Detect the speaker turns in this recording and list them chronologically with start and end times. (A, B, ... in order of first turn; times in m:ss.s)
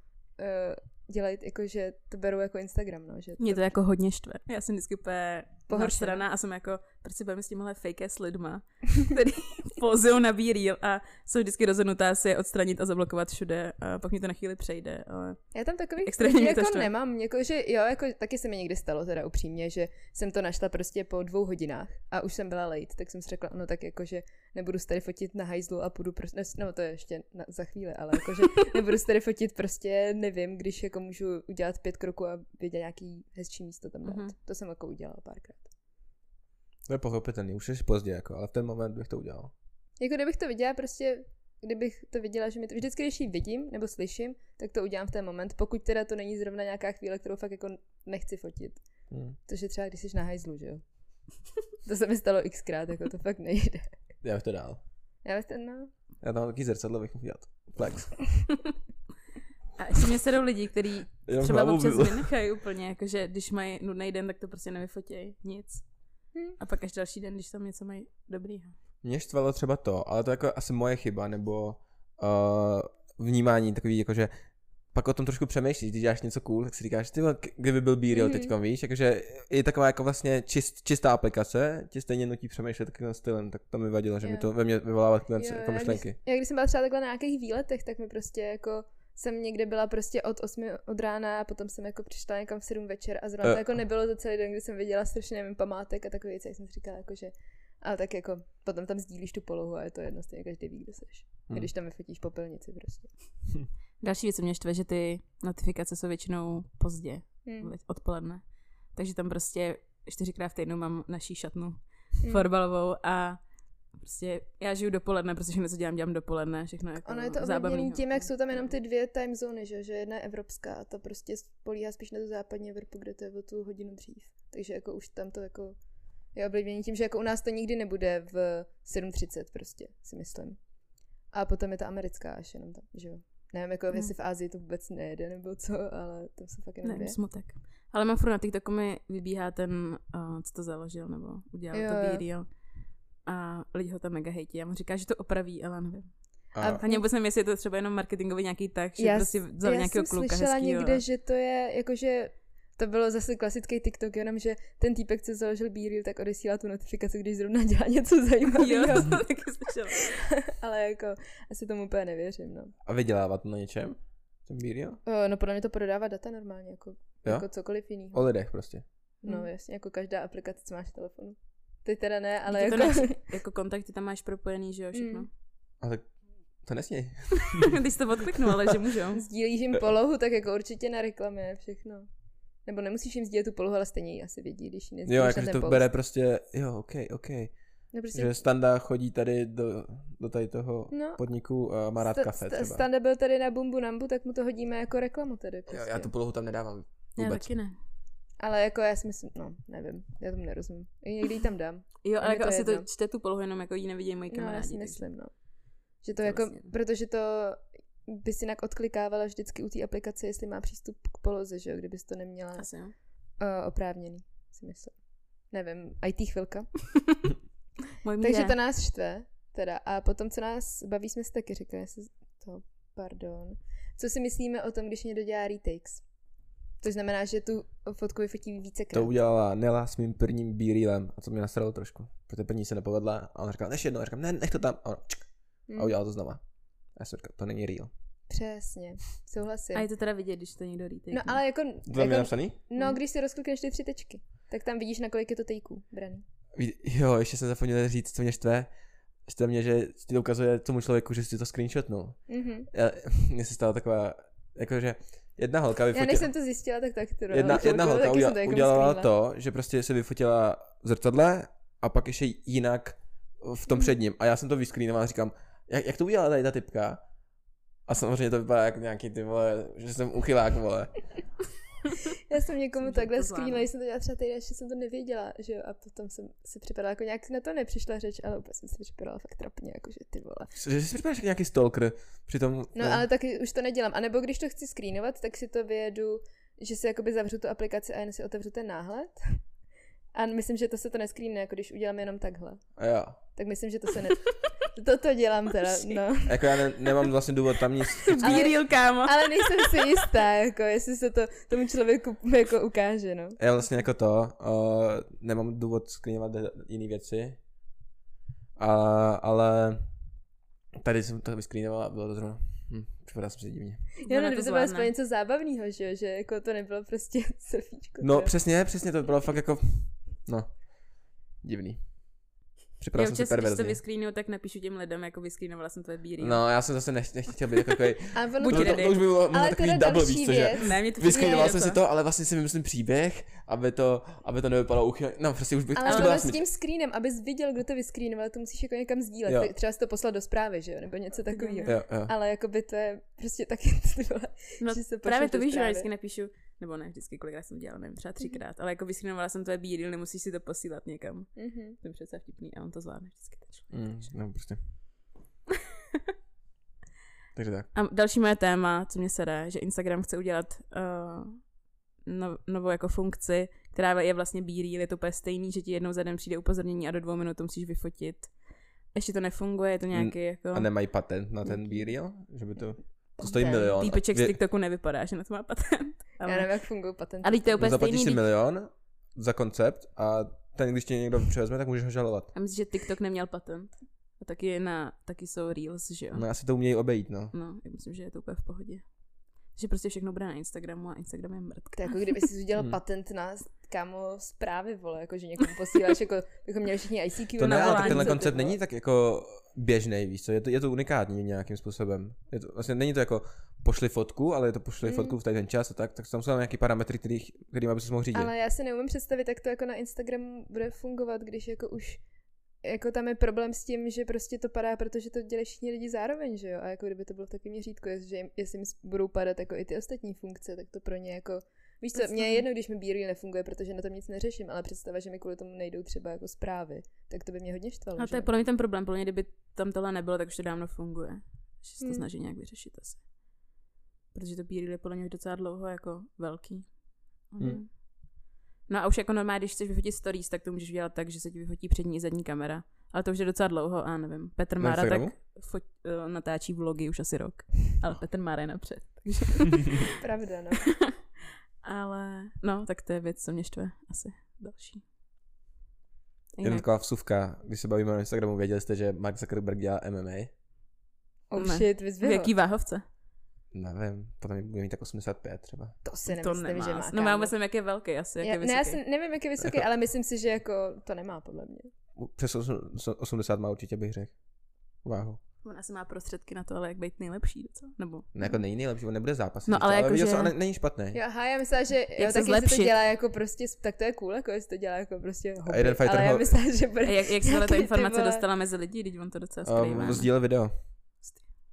0:00.4-0:03.6 A
0:03.4-0:16.9 B
0:05.7-0:06.2 A
0:15.5-0:35.7 A
0:34.0-0:34.3 B
0:36.9-0:39.5 C
0:40.0-0:48.8 A
0:49.1-0:49.4 C
0:49.4-0:50.8 A
0:51.8-0:53.9 A
0:54.2-0:54.8 C
0:55.2-0:55.9 A
0:56.2-0:58.2 C
0:59.8-1:05.8 B
1:01.3-1:02.3 C
1:06.5-1:08.7 B
1:09.0-1:14.3 C
1:14.9-1:26.2 C
1:18.1-1:18.5 A
1:24.2-1:24.5 A
1:25.3-1:43.1 A
1:44.0-1:58.7 B
1:47.4-1:47.7 A
1:57.0-2:05.8 A
2:06.3-2:10.6 A
2:11.3-2:17.2 A
2:16.8-2:22.5 B
2:21.7-2:22.2 A
2:23.2-2:31.0 B
2:26.5-2:26.8 C
2:26.6-2:27.0 A
2:29.0-2:39.2 A
2:38.5-2:40.1 B
2:40.0-2:42.7 A
2:42.8-2:45.0 C
2:45.0-2:48.2 A
2:47.2-2:48.8 C
2:49.2-2:53.2 A
2:52.5-2:55.3 B
2:54.9-2:55.3 A
2:55.8-2:56.1 C
2:56.6-2:57.7 C
2:57.6-2:59.2 B
2:59.1-3:02.1 A
3:02.6-3:05.9 A
3:05.0-3:07.5 C
3:07.9-3:08.4 A
3:08.1-3:12.8 C
3:10.9-3:11.2 A
3:12.0-3:16.1 A
3:15.7-3:17.5 C
3:17.2-3:17.8 B
3:18.4-3:22.8 A
3:22.0-3:25.0 B
3:24.3-3:25.3 A
3:26.0-3:32.7 A
3:26.2-3:26.7 B
3:32.6-3:32.9 B
3:33.4-3:34.9 A
3:35.5-3:36.7 A
3:38.0-3:38.5 B
3:38.2-3:46.0 A
3:46.8-3:49.1 A
3:48.9-3:56.4 C
3:55.7-3:55.9 A
3:57.0-3:57.9 C
3:58.3-3:59.9 A
3:59.7-4:01.4 B
4:01.1-4:06.2 A
4:01.9-4:02.6 C
4:06.5-4:08.7 C
4:09.2-4:16.3 C
4:12.3-4:12.7 A
4:15.9-4:19.1 A
4:17.3-4:27.0 C
4:27.8-4:30.9 C
4:32.3-4:40.5 A
4:32.8-4:33.7 B
4:40.6-4:43.0 C
4:42.7-4:49.2 A
4:50.1-4:52.6 A
4:52.8-4:53.2 C
4:53.3-4:56.5 A
4:56.2-4:58.6 C
4:58.0-5:00.1 B
4:58.2-5:03.4 A
5:03.4-5:07.4 C
5:08.6-5:09.9 C
5:10.7-5:13.8 C
5:14.0-5:18.3 A
5:14.0-5:14.9 B
5:18.0-5:23.8 C
5:22.9-5:26.5 B
5:26.2-5:36.4 C
5:28.1-5:31.5 A
5:28.4-5:29.0 B
5:30.6-5:31.8 B
5:35.8-5:45.9 A
5:35.8-5:36.3 B
5:39.2-5:39.5 C
5:41.3-5:41.8 B
5:41.6-5:42.1 C
5:44.6-5:54.0 B
5:51.4-5:51.8 A
5:53.7-5:54.6 C
5:57.3-5:57.7 C
5:57.7-6:01.5 B
6:02.0-6:08.3 B
6:08.9-6:10.9 B
6:09.9-6:14.4 C
6:13.2-6:13.9 A
6:13.8-6:16.6 B
6:16.2-6:17.6 A
6:17.2-6:18.2 B
6:17.6-6:22.3 C
6:22.3-6:26.2 B
6:26.1-6:27.3 C
6:27.3-6:28.8 B
6:29.5-6:32.2 B
6:31.8-6:38.3 A
6:37.4-6:48.3 C
6:37.4-6:38.5 B
6:44.8-6:45.2 A
6:48.1-6:52.0 A
6:52.6-7:08.3 A
7:01.9-7:02.4 B
7:08.0-7:13.1 B
7:11.8-7:12.1 A
7:14.1-7:29.9 B
7:24.6-7:25.1 C
7:30.0-7:30.6 A
7:31.6-7:34.8 B
7:36.4-7:36.6 B
7:36.4-7:40.3 C
7:41.3-7:42.3 A
7:41.4-7:42.8 B
7:43.5-7:45.8 C
7:45.8-7:47.3 A
7:46.0-7:48.8 B
7:48.2-7:51.7 A
7:52.0-7:54.1 C
7:54.8-7:55.2 C
7:55.4-7:58.2 B
7:58.1-8:01.0 C
7:59.5-8:00.3 B
8:00.9-8:08.2 A
8:02.0-8:02.7 B
8:05.4-8:06.4 C
8:06.8-8:10.2 B
8:09.4-8:10.5 C